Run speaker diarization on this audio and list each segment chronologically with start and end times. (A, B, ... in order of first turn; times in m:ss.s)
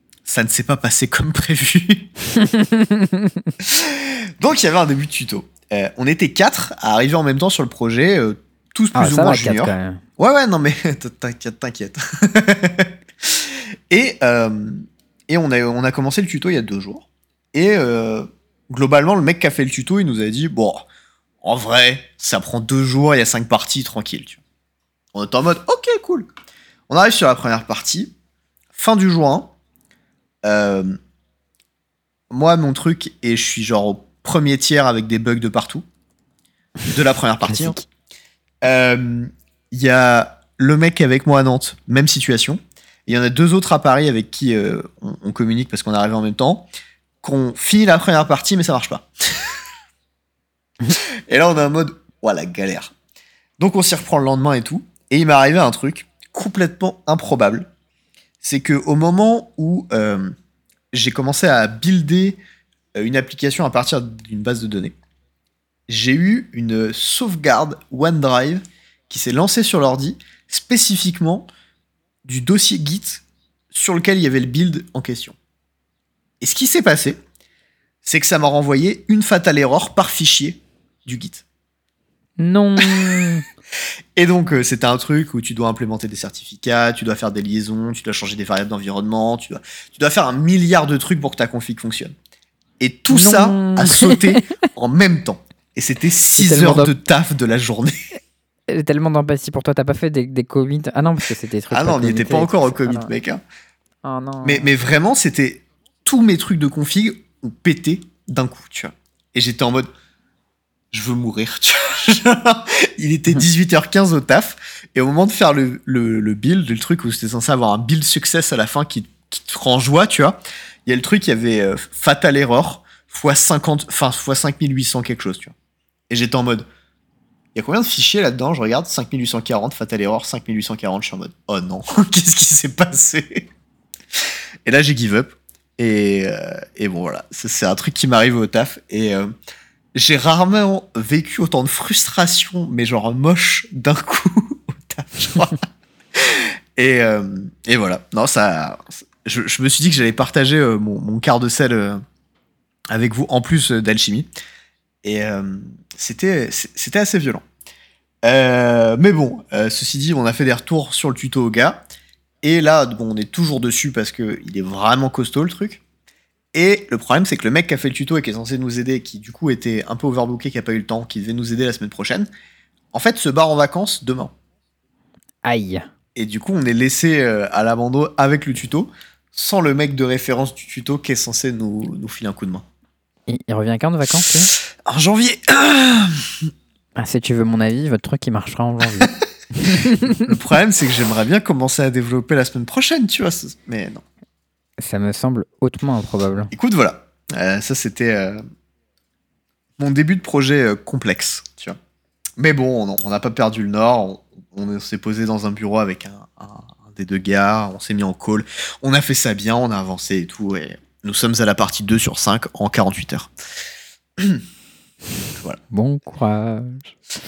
0:00.2-0:02.1 A
0:02.4-0:03.5 B
0:03.6-0:20.9 A
0:09.0-0:10.0 B
0:21.4-0:24.4 A
0:25.1-0:26.3 A
0:26.9-0:28.1 A
0:28.7-0:29.6 A
0:30.4-0:31.0 A
0:32.3-0:35.8 A
0:36.9-0:37.8 A
0:37.4-0:37.8 B
0:38.6-0:46.7 A
0:47.2-0:49.6 A
0:50.9-0:52.9 A
0:53.6-0:57.7 A
0:58.4-1:00.3 A
1:00.9-1:02.4 A
1:03.0-1:05.0 A
1:05.9-1:11.5 A
1:12.2-1:15.4 A
1:16.4-1:17.2 A
1:18.0-1:21.4 A
1:22.4-1:23.4 B
1:22.8-1:23.3 A
1:24.2-1:32.1 A
1:32.8-1:38.2 A
1:33.1-1:34.7 B
1:36.4-1:36.9 B
1:38.7-1:43.1 B
1:41.7-1:43.4 A
1:44.0-1:44.7 B
1:44.4-1:49.9 A
1:50.9-2:05.6 A
2:06.1-2:06.7 A
2:07.6-2:13.5 A
2:14.1-2:19.3 A
2:19.9-2:25.6 A
2:26.1-2:32.0 A
2:32.9-2:34.3 A
2:35.0-2:37.4 A
2:38.2-2:41.8 A
2:42.4-2:45.8 A
2:46.5-2:52.3 A
2:52.9-2:54.3 A
2:55.4-2:55.9 B
2:56.2-3:02.7 A
3:03.3-3:04.5 B
3:04.4-3:06.5 A
3:07.0-3:10.4 B
3:09.8-3:14.0 A
3:14.8-3:16.5 B
3:16.5-3:18.4 A
3:19.8-3:21.8 A
3:22.4-3:33.3 A
3:34.2-3:34.4 A
3:35.7-3:37.0 B